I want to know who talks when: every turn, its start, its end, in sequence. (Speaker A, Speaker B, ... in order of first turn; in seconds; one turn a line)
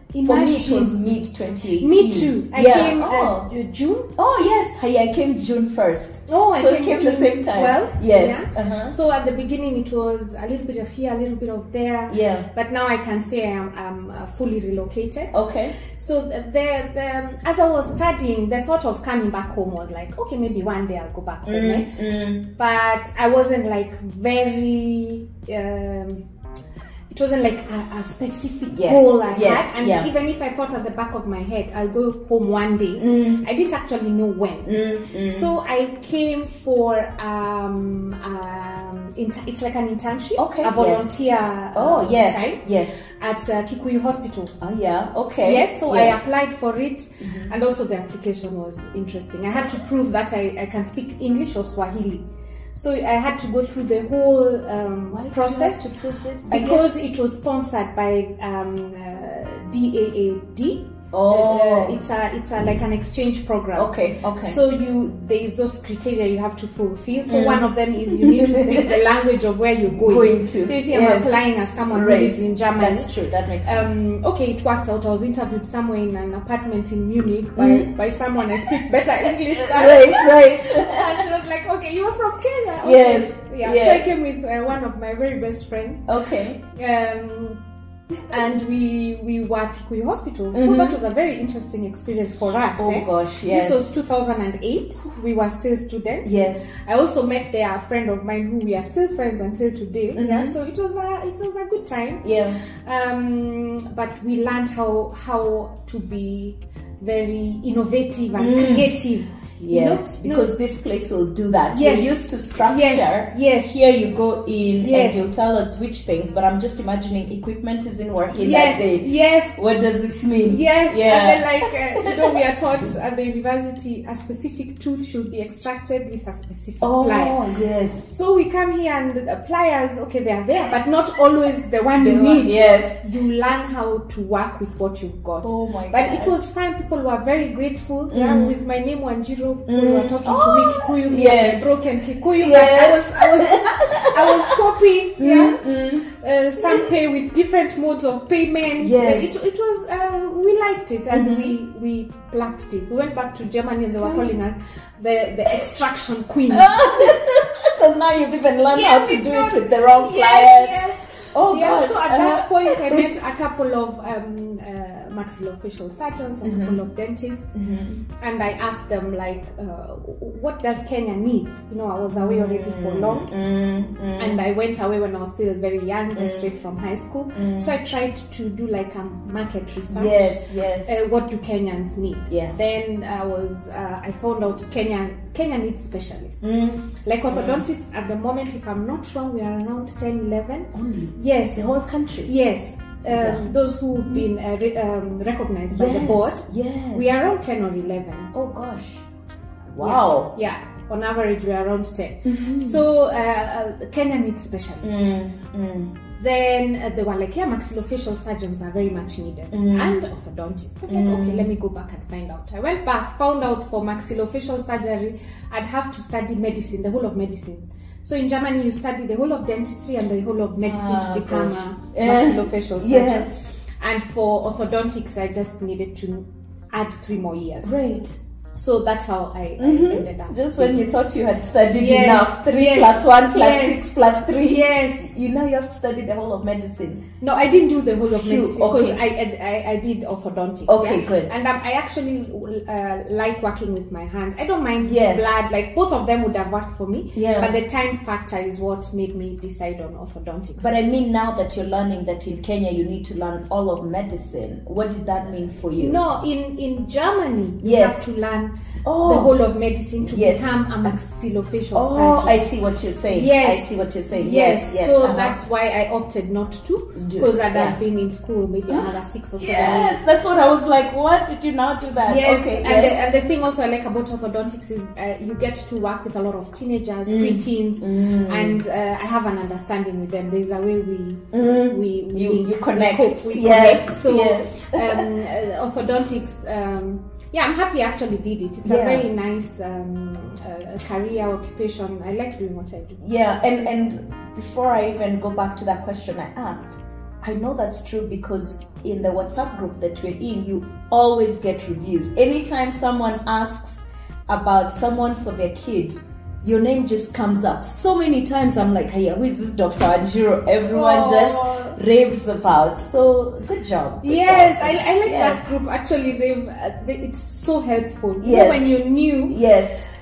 Speaker A: 0.1-1.0
Speaker B: 0.2-3.5
Speaker A: 1.8-4.1
Speaker B: 4.2-8.9
Speaker A: 6.3-21.9
Speaker B: 12.1-12.4
Speaker B: 15.3-15.8
Speaker B: 21.4-22.4
Speaker A: 22.4-26.2
Speaker A: 27.1-44.5
Speaker B: 28.7-30.1
Speaker B: 33.0-33.4
Speaker B: 34.6-35.5
Speaker B: 40.4-41.1
Speaker B: 41.7-43.0
Speaker B: 44.6-46.3
Speaker A: 45.4-52.2
Speaker B: 47.2-47.5
Speaker A: 52.7-55.8
Speaker B: 55.1-57.0
Speaker A: 56.5-73.1
Speaker B: 61.1-62.0
Speaker B: 63.7-64.6
Speaker B: 67.3-69.0
Speaker B: 69.8-71.4
Speaker B: 71.9-73.9
Speaker A: 73.6-86.1
Speaker B: 77.5-77.9
Speaker B: 79.3-81.2
Speaker B: 82.8-84.1
Speaker B: 86.1-86.6
Speaker A: 86.7-87.6
Speaker A: 88.2-102.2
Speaker B: 90.5-91.0
Speaker B: 92.8-94.0
Speaker B: 96.2-96.7
Speaker B: 100.1-100.5
Speaker B: 102.2-102.6
Speaker A: 102.8-110.5
Speaker B: 108.3-108.9
Speaker B: 109.6-122.4
Speaker A: 111.7-113.8
Speaker A: 114.8-115.2
Speaker A: 118.3-119.6
Speaker A: 120.5-127.4
Speaker B: 126.8-128.1
Speaker A: 128.0-157.2
Speaker B: 131.9-133.0
Speaker B: 135.4-136.4
Speaker B: 138.1-138.5
Speaker B: 139.7-141.7
Speaker B: 142.3-146.1
Speaker B: 146.6-146.9
Speaker B: 148.8-149.4
Speaker B: 151.1-151.5
Speaker B: 156.5-163.1
Speaker A: 158.7-167.6
Speaker B: 166.4-166.8
Speaker B: 167.5-168.0
Speaker A: 168.1-173.3
Speaker B: 172.1-174.4
Speaker A: 174.2-186.4
Speaker B: 176.1-176.5
Speaker B: 177.3-177.7
Speaker B: 179.9-181.1
Speaker B: 182.3-182.6
Speaker B: 186.4-187.6
Speaker A: 186.9-191.7
Speaker B: 190.7-192.3
Speaker A: 192.2-198.3
Speaker B: 193.0-194.3
Speaker B: 195.7-197.2
Speaker B: 198.3-199.0
Speaker B: 199.7-200.3
Speaker A: 199.8-205.2
Speaker B: 202.2-202.8
Speaker B: 204.8-205.9
Speaker A: 206.2-227.7
Speaker B: 209.5-209.9
Speaker B: 210.9-211.5
Speaker B: 220.6-223.6
Speaker B: 227.6-228.2
Speaker A: 228.5-230.9
Speaker B: 229.6-237.0
Speaker A: 231.7-235.0
Speaker A: 237.2-250.7
Speaker B: 238.0-239.0
Speaker B: 240.7-241.3
Speaker B: 244.8-245.3
Speaker B: 247.1-247.5
Speaker B: 250.6-256.0
Speaker A: 255.8-258.5
Speaker B: 257.6-258.0
Speaker B: 258.8-259.3
Speaker A: 259.0-262.4
Speaker B: 260.0-260.9
Speaker B: 261.7-265.4
Speaker A: 263.1-270.0
Speaker B: 266.9-267.8
Speaker B: 268.7-273.0
Speaker A: 272.0-293.0
Speaker B: 277.1-278.6
Speaker B: 281.3-285.1
Speaker B: 288.6-289.1
Speaker B: 293.0-315.4
Speaker A: 310.7-311.8
Speaker A: 314.0-319.4
Speaker B: 318.2-318.8
Speaker B: 319.3-319.8